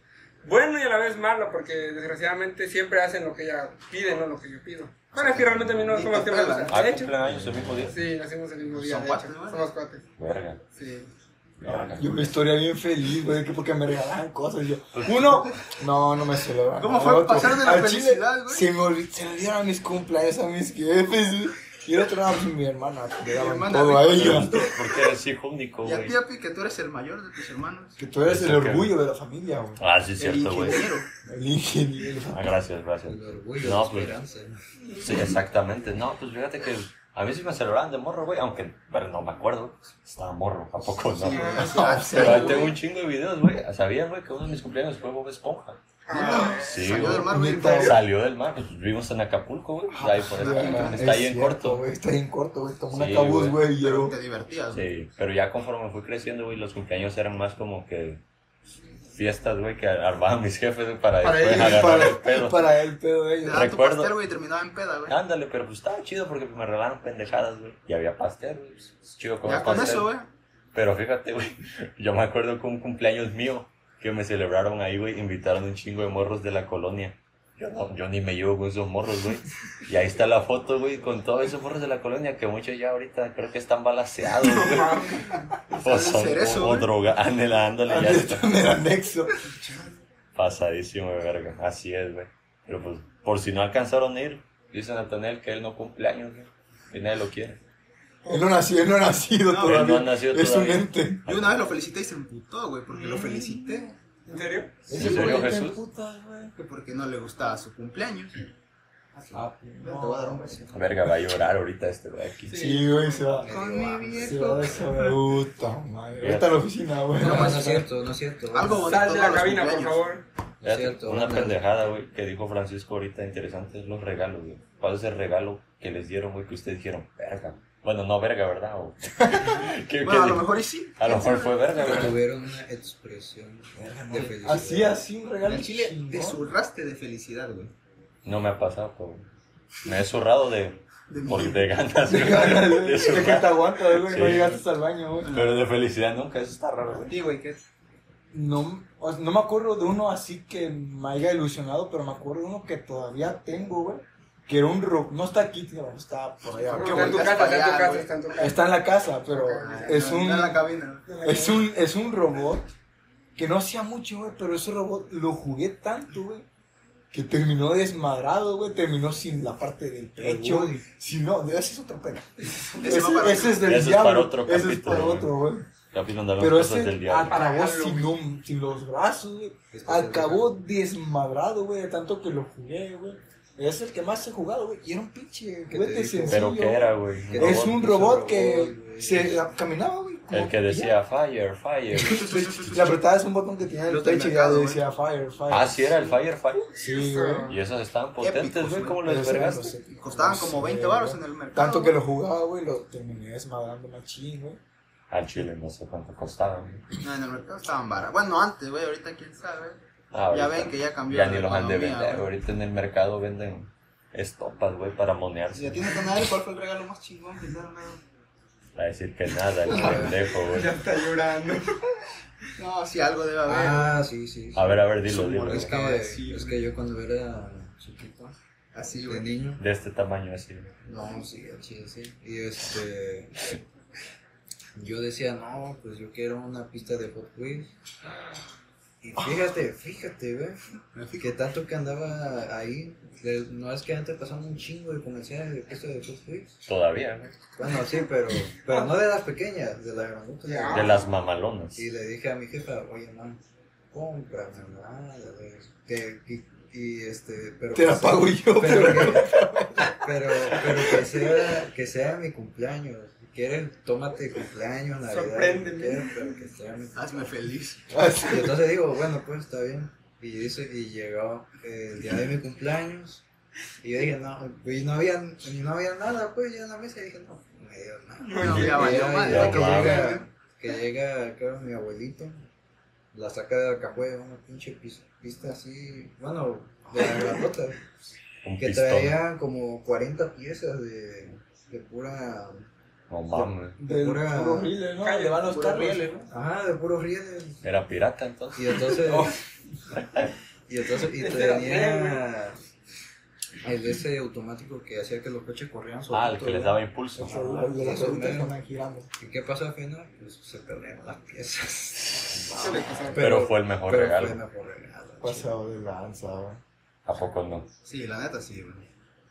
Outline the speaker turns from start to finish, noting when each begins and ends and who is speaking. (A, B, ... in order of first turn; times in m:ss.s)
0:00.4-0:07.1 A
0:05.1-0:06.8 B
0:06.7-0:08.0 C
0:07.3-0:07.8 D
0:07.9-0:10.0 A
0:08.7-0:09.7 B
0:10.2-0:10.6 C
0:10.7-0:11.1 A
0:11.6-0:12.3 C
0:11.9-0:24.6 D
0:14.9-0:15.6 C
0:16.8-0:18.7 B
0:23.3-0:24.8 B
0:24.1-0:26.2 C
0:25.8-0:28.0 B
0:28.0-0:29.8 D
0:28.2-0:29.0 C
0:29.8-0:30.9 C
0:30.2-0:31.1 B
0:31.2-0:32.5 D
0:32.3-0:34.2 C
0:33.0-0:34.6 E
0:35.0-0:45.8 C
0:41.2-0:42.8 B
0:41.2-0:42.7 A
0:41.5-0:42.7 D
0:46.0-0:47.9 A
0:46.1-0:48.0 D
0:46.5-0:51.8 C
0:46.8-0:48.0 B
0:49.9-0:54.1 D
0:50.3-0:51.2 B
0:52.9-0:53.6 C
0:53.8-0:54.9 B
0:54.7-0:58.2 C
0:59.1-1:02.7 C
1:01.2-1:02.0 A
1:01.5-1:03.7 D
1:03.4-1:05.2 B
1:03.4-1:04.2 C
1:05.1-1:10.1 C
1:09.4-1:10.3 B
1:10.7-1:25.2 C
1:24.3-1:25.4 A
1:25.7-1:26.9 B
1:25.7-1:28.5 C
1:27.8-1:29.3 D
1:30.3-1:37.6 C
1:38.2-1:41.2 D
1:39.4-1:40.0 B
1:39.6-1:41.7 C
1:41.2-1:43.9 B
1:42.9-1:43.8 D
1:44.2-1:44.8 A
1:44.9-1:46.5 D
1:44.9-1:45.8 C
1:44.9-1:45.3 B
1:46.6-1:48.3 B
1:49.1-1:50.8 B
1:49.3-1:50.6 D
1:50.7-1:52.7 C
1:52.5-1:53.2 A
1:52.5-1:57.9 D
1:53.3-1:54.4 E
1:53.4-1:55.1 B
1:56.2-1:56.6 C
1:57.2-1:58.9 E
1:57.2-1:57.7 B
1:58.5-2:00.0 B
1:58.7-2:00.2 A
2:00.6-2:01.6 E
2:00.6-2:12.2 C
2:10.0-2:11.6 B
2:11.8-2:15.0 E
2:13.7-2:16.4 D
2:15.4-2:17.7 B
2:18.2-2:19.3 C
2:19.8-2:24.6 C
2:21.1-2:21.7 B
2:22.0-2:25.4 D
2:25.2-2:27.2 C
2:27.1-2:27.6 B
2:28.3-2:37.6 D
2:36.6-2:38.1 B
2:36.7-2:38.6 A
2:38.4-2:40.6 D
2:39.3-2:40.2 A
2:39.6-2:41.4 B
2:41.1-2:41.4 A
2:41.2-2:42.7 D
2:43.4-2:46.4 D
2:47.1-2:55.7 D
2:50.2-2:50.8 E
2:52.4-2:53.0 A
2:52.8-2:53.7 B
2:53.6-2:55.3 C
2:55.9-2:57.4 C
2:56.4-3:10.9 D
2:57.3-2:58.1 A
2:59.7-3:00.6 E
3:05.7-3:06.6 E
3:06.3-3:07.9 C
3:07.3-3:09.4 E
3:10.3-3:12.5 C
3:12.0-3:12.9 B
3:12.1-3:16.2 D
3:13.9-3:14.8 B
3:15.5-3:16.8 C
3:16.7-3:17.6 A
3:16.8-3:17.5 D
3:17.5-3:19.8 C
3:18.2-3:19.0 B
3:19.0-3:24.6 D
3:20.0-3:22.0 B
3:25.1-3:26.8 C
3:27.0-3:29.8 B
3:30.1-3:36.2 C
3:30.3-3:32.3 B
3:35.5-3:38.0 B
3:38.8-3:40.8 C
3:39.7-3:40.2 E
3:39.7-3:41.8 A
3:39.8-3:40.1 B
3:42.6-3:44.0 B
3:43.4-3:44.8 E
3:44.5-3:45.8 C
3:45.1-3:46.6 B
3:45.4-3:48.3 E
3:48.7-3:49.3 B
3:49.0-3:49.6 E
3:49.6-3:50.7 C
3:50.8-3:53.4 E
3:54.8-3:57.7 E
3:59.0-4:00.6 E
4:00.9-4:01.3 B
4:01.2-4:06.5 E
4:06.6-4:07.3 C
4:07.6-4:11.1 E
4:10.4-4:11.0 A
4:10.7-4:11.8 C
4:11.8-4:13.4 E
4:13.9-4:27.2 E
4:17.7-4:19.9 D
4:25.1-4:26.2 A
4:26.9-4:27.9 B
4:27.9-4:28.7 D
4:28.3-4:33.2 E
4:33.8-4:42.4 E
4:38.2-4:39.2 A
4:38.3-4:40.2 B
4:38.4-4:40.2 C
4:43.1-4:47.8 E
4:48.4-4:49.2 C
4:48.6-4:52.7 E
4:53.1-4:53.8 C
4:53.3-4:56.3 D
4:53.8-4:54.7 E
4:55.0-4:55.4 A
4:55.4-4:56.2 B
4:56.3-4:57.6 E
4:57.6-4:59.2 C
4:58.6-4:59.4 E
4:59.0-4:59.4 D
5:00.0-5:00.3 C
5:00.7-5:02.6 E
5:01.1-5:02.2 A
5:03.6-5:08.5 E
5:06.1-5:07.7 C
5:07.2-5:09.1 D
5:09.2-5:15.5 E
5:12.4-5:13.1 D
5:12.6-5:13.2 A
5:13.2-5:14.4 C
5:15.2-5:16.6 D
5:17.0-5:17.7 C
5:17.8-5:18.8 B